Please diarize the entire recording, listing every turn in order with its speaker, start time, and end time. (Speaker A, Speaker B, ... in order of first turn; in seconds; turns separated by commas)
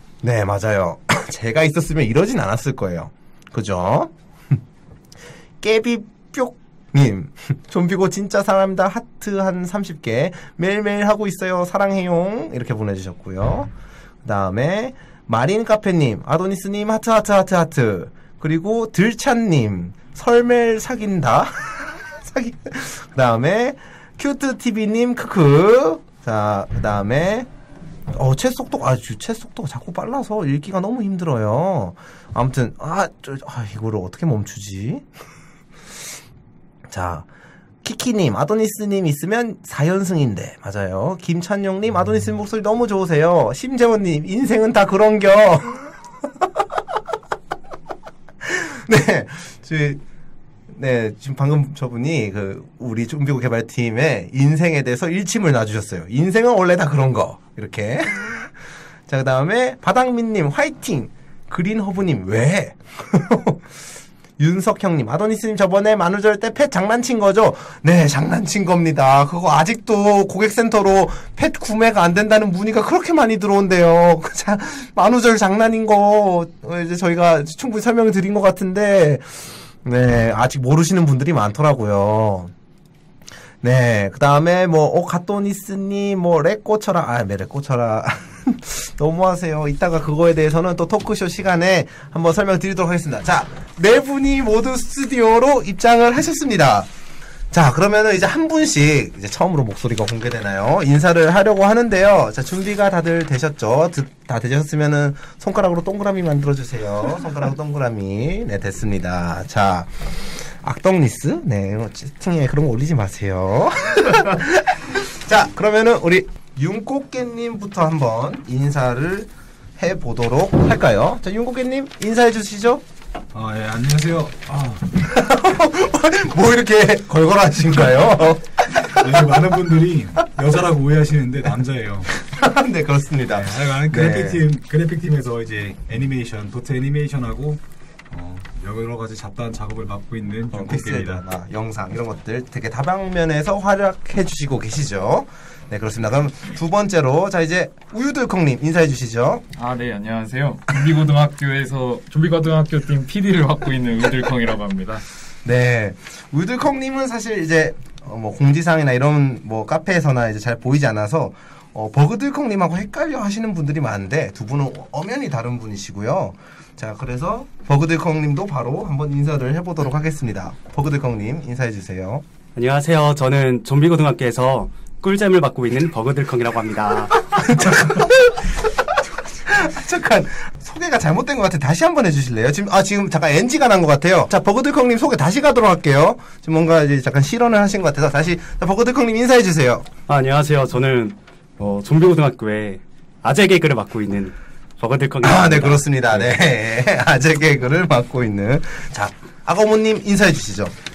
Speaker A: 0.2-4.6, Speaker A: 5.6-13.7, Speaker A: 14.2-27.5, Speaker A: 28.1-35.0, Speaker A: 36.9-37.3, Speaker A: 37.8-46.5, Speaker A: 48.4-50.0, Speaker A: 50.7-58.5, Speaker A: 59.1-63.6, Speaker A: 64.4-82.5, Speaker A: 83.6-96.9, Speaker A: 97.5-122.8, Speaker B: 123.3-124.9, Speaker A: 125.0-129.3, Speaker B: 128.8-132.2, Speaker A: 132.2-134.5, Speaker B: 133.3-141.2, Speaker A: 140.5-149.4, Speaker C: 149.6-155.1, Speaker A: 155.4-172.2, Speaker D: 172.6-177.7, Speaker A: 177.4-178.5, Speaker A: 179.4-189.9, Speaker D: 190.1-196.4, Speaker A: 195.2-200.8